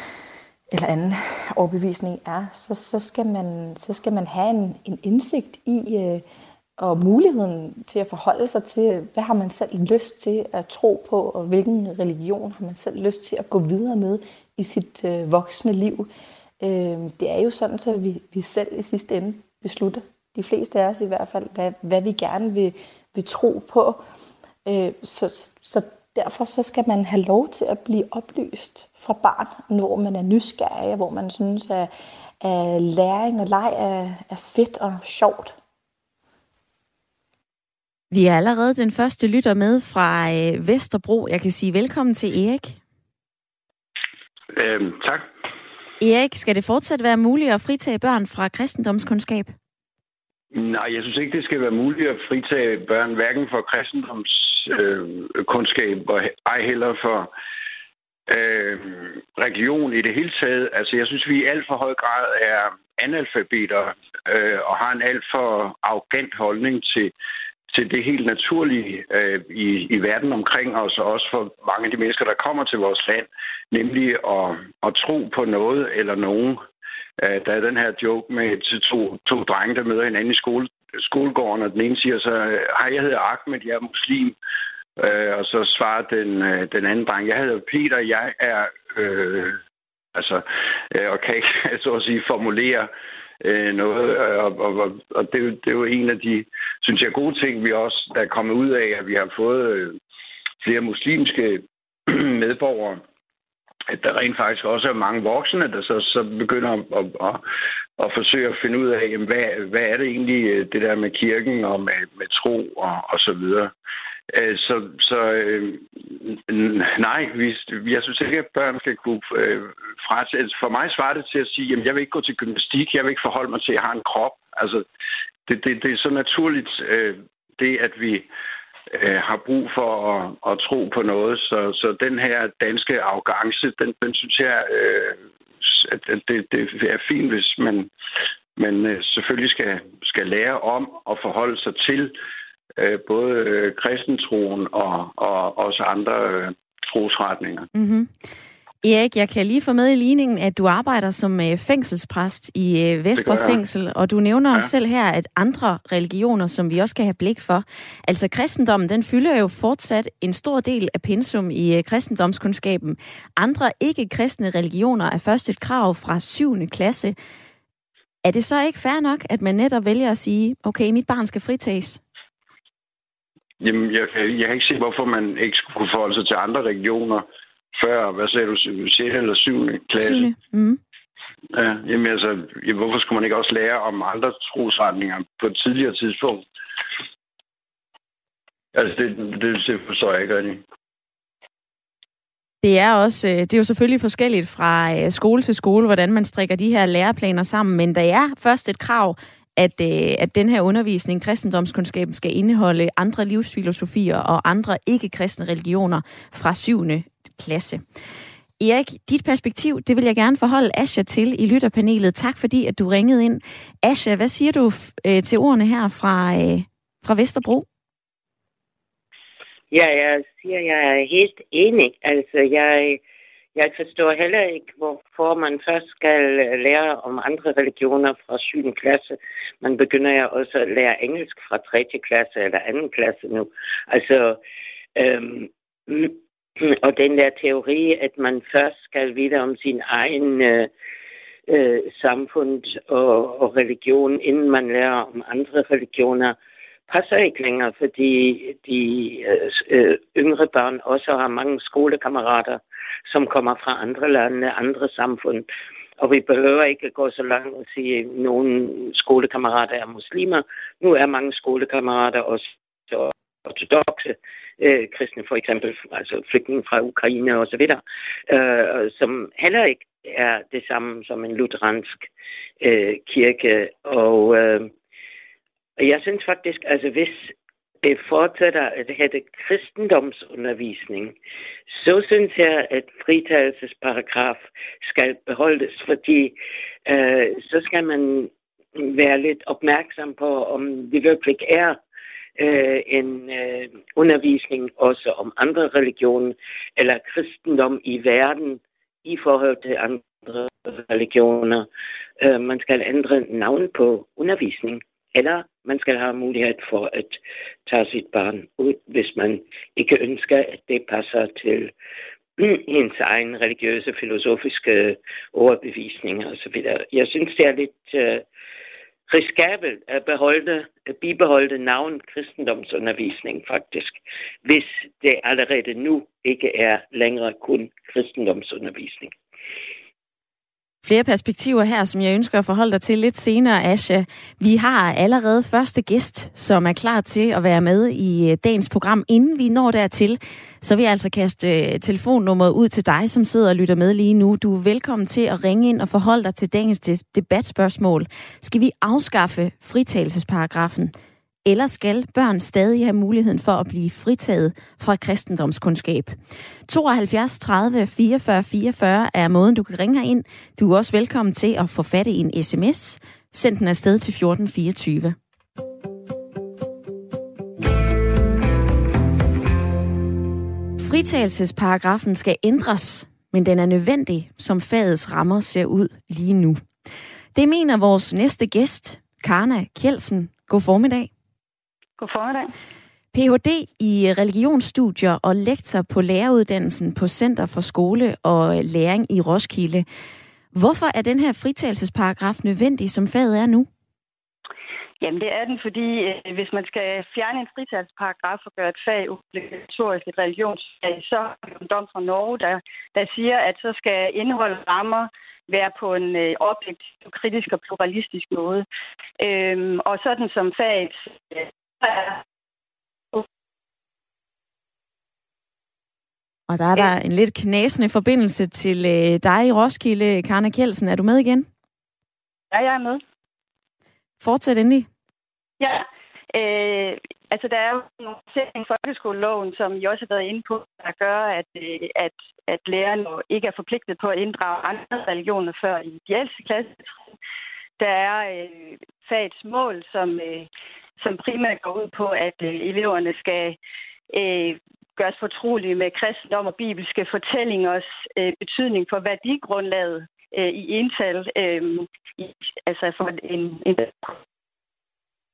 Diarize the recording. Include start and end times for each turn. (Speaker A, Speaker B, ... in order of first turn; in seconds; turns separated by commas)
Speaker A: 0.7-6.2, Speaker A: 6.8-16.1, Speaker A: 16.6-24.0, Speaker A: 24.6-35.5, Speaker B: 38.1-42.8, Speaker C: 44.5-45.2, Speaker B: 46.0-49.5, Speaker C: 50.5-57.3, Speaker C: 58.3-67.1, Speaker C: 67.7-76.6, Speaker C: 77.2-84.4, Speaker C: 85.0-89.6, Speaker C: 90.1-92.9, Speaker C: 93.4-100.0, Speaker C: 100.6-103.0, Speaker C: 103.9-107.4, Speaker C: 108.0-113.7, Speaker C: 114.3-124.8, Speaker C: 125.5-128.3, Speaker C: 128.9-137.9, Speaker C: 138.6-142.1, Speaker C: 142.8-147.7, Speaker B: 147.7-148.1, Speaker B: 148.8-167.2, Speaker C: 153.2-153.6, Speaker B: 168.2-172.0, Speaker C: 173.6-180.3, Speaker B: 180.0-180.8, Speaker C: 181.5-186.4, Speaker C: 188.7-190.6, Speaker B: 192.6-207.8, Speaker B: 208.6-217.7, Speaker D: 219.7-223.0, Speaker D: 223.5-234.4, Speaker D: 234.9-240.7, Speaker D: 241.5-246.4, Speaker D: 246.9-255.5, Speaker D: 256.0-272.1, Speaker D: 272.6-274.7, Speaker D: 275.8-281.1, Speaker D: 281.7-291.8, Speaker D: 292.4-301.7, Speaker D: 302.2-311.7, Speaker D: 312.4-318.2, Speaker D: 319.1-329.1, Speaker B: 330.8-350.9, Speaker B: 351.4-356.1, Speaker B: 356.7-365.1, Speaker B: 370.8-376.6, Speaker B: 377.3-381.1, Speaker E: 382.0-382.5, Speaker B: 383.1-389.8, Speaker B: 390.5-393.7, Speaker E: 395.0-408.6, Speaker E: 409.2-412.2, Speaker B: 416.5-421.5, Speaker E: 422.5-423.0, Speaker B: 424.2-424.9, Speaker E: 425.6-437.0, Speaker E: 437.8-440.5, Speaker E: 441.0-443.6, Speaker E: 444.1-454.2